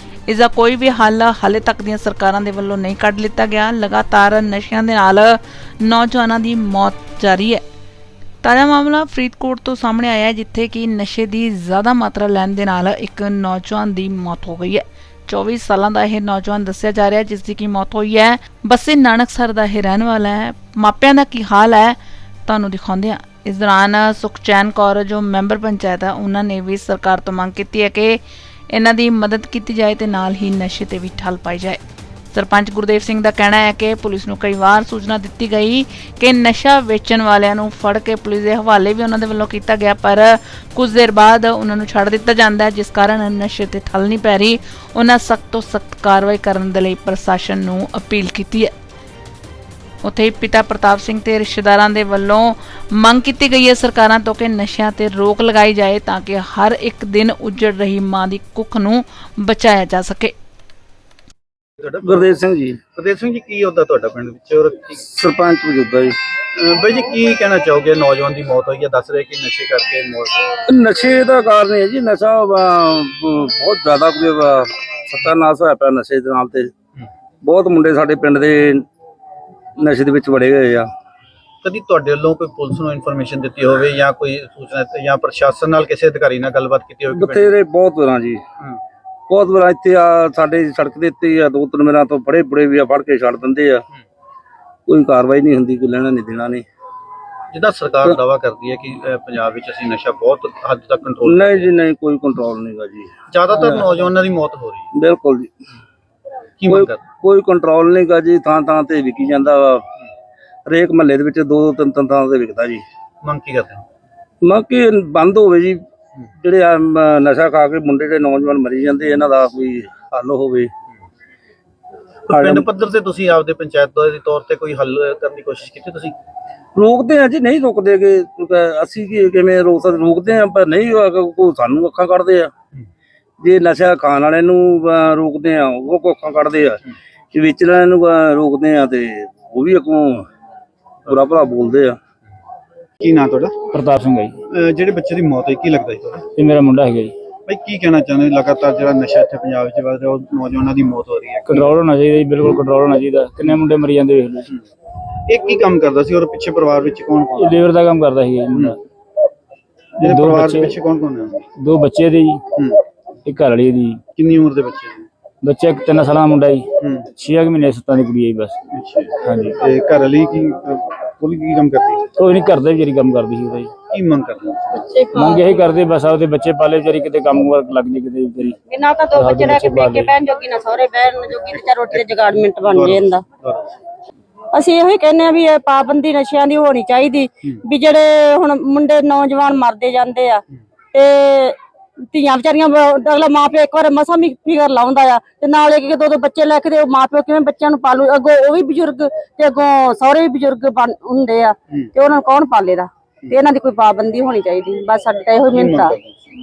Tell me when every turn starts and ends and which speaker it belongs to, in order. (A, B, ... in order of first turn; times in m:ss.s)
0:00.3-0:07.6 A
0:08.4-0:31.8 A
0:32.3-0:48.7 A
0:50.0-1:00.3 A
1:01.8-1:02.3 B
1:02.0-1:02.8 C
1:03.0-1:05.0 B
1:05.0-1:06.2 C
1:06.6-1:10.5 B
1:10.7-1:16.7 C
1:17.4-1:18.8 C
1:19.8-1:20.8 C
1:21.6-1:27.5 B
1:27.1-1:28.4 C
1:29.3-1:33.8 C
1:34.9-1:36.6 C
1:37.5-1:41.7 B
1:41.2-1:43.1 C
1:43.3-1:44.9 B
1:45.0-1:45.5 C
1:46.6-1:47.0 B
1:46.7-1:49.9 C
1:50.7-1:52.8 C
1:53.2-1:53.8 B
1:54.4-1:55.8 C
1:56.4-2:00.7 C
2:02.3-2:06.2 B
2:02.3-2:02.6 C
2:06.8-2:12.5 C
2:13.4-2:16.8 C
2:17.3-2:20.2 C
2:21.1-2:22.0 C
2:23.0-2:23.5 B
2:23.7-2:24.4 D
2:24.5-2:26.3 B
2:26.4-2:27.1 D
2:27.5-2:31.8 B
2:31.5-2:34.5 D
2:35.3-2:37.6 B
2:37.4-2:38.8 D
2:40.0-2:41.4 B
2:40.0-2:40.7 D
2:41.6-2:42.4 D
2:43.2-2:44.0 D
2:44.2-2:45.0 B
2:45.4-2:46.7 D
2:46.8-2:47.1 B
2:47.2-2:48.5 D
2:48.7-2:52.0 B
2:49.2-2:49.6 D
2:52.2-2:53.7 D
2:53.9-2:54.7 B
2:54.8-2:55.1 E
2:55.1-2:58.6 D
2:58.7-3:03.2 E
2:59.1-3:00.1 D
3:02.6-3:03.7 B
3:04.5-3:11.6 E
3:12.1-3:25.9 E
3:25.5-3:26.1 B